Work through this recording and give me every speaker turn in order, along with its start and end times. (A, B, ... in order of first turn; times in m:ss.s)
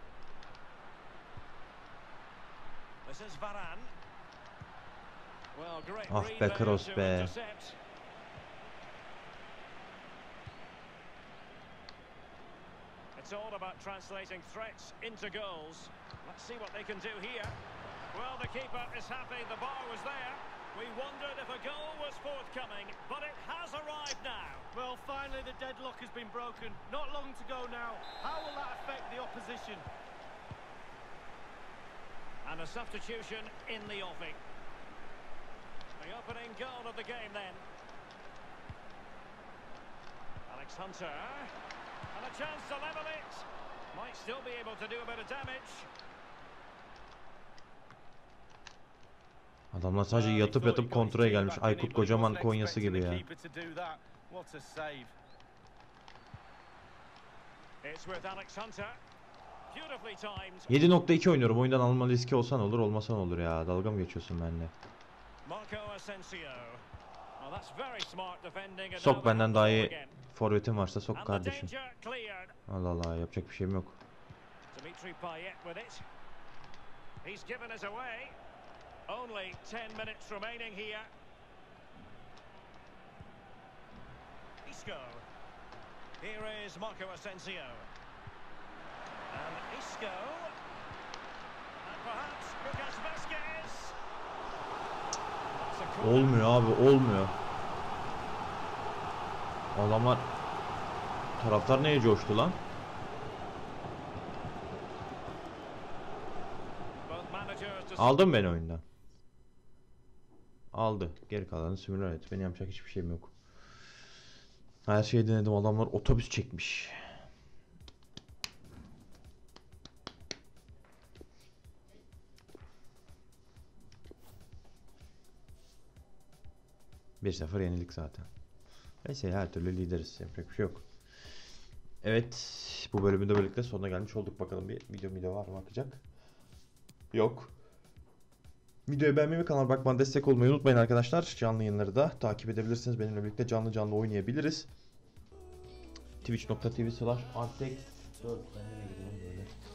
0:03.0-0:03.9 A
0:05.6-0:07.8 A
0:06.1-0:07.3 B
0:13.2-0:17.6 A
0:18.1-0:24.7 A
0:24.7-0:29.8 C
0:32.4-0:34.4 A
0:36.0-0:37.6 A
0:40.5-0:41.5 A
0:42.1-0:45.9 A
0:49.7-0:53.2 B
0:50.1-0:55.2 C
0:57.8-0:59.0 A
0:59.7-1:00.8 A
1:00.7-1:04.7 B
1:05.4-1:06.8 A
1:07.4-1:10.2 A
1:08.9-1:11.7 B
1:11.1-1:12.6 A
1:12.7-1:14.0 B
1:14.7-1:16.0 A
1:17.2-1:18.4 A
1:19.1-1:21.1 A
1:24.6-1:25.2 A
1:26.2-1:27.9 A
1:29.3-1:30.5 A
1:31.8-1:34.0 A
1:35.5-1:36.5 A
1:36.0-1:37.4 B
1:39.7-1:40.3 B
1:41.4-1:42.6 B
1:47.1-1:48.2 A
1:48.0-1:48.8 B
1:50.7-1:53.4 B
1:54.9-1:57.2 B
2:07.2-2:08.3 B
2:09.0-2:10.9 B
2:12.0-2:16.0 B
2:17.1-2:17.5 B
2:18.9-2:24.7 B
2:26.2-2:29.5 B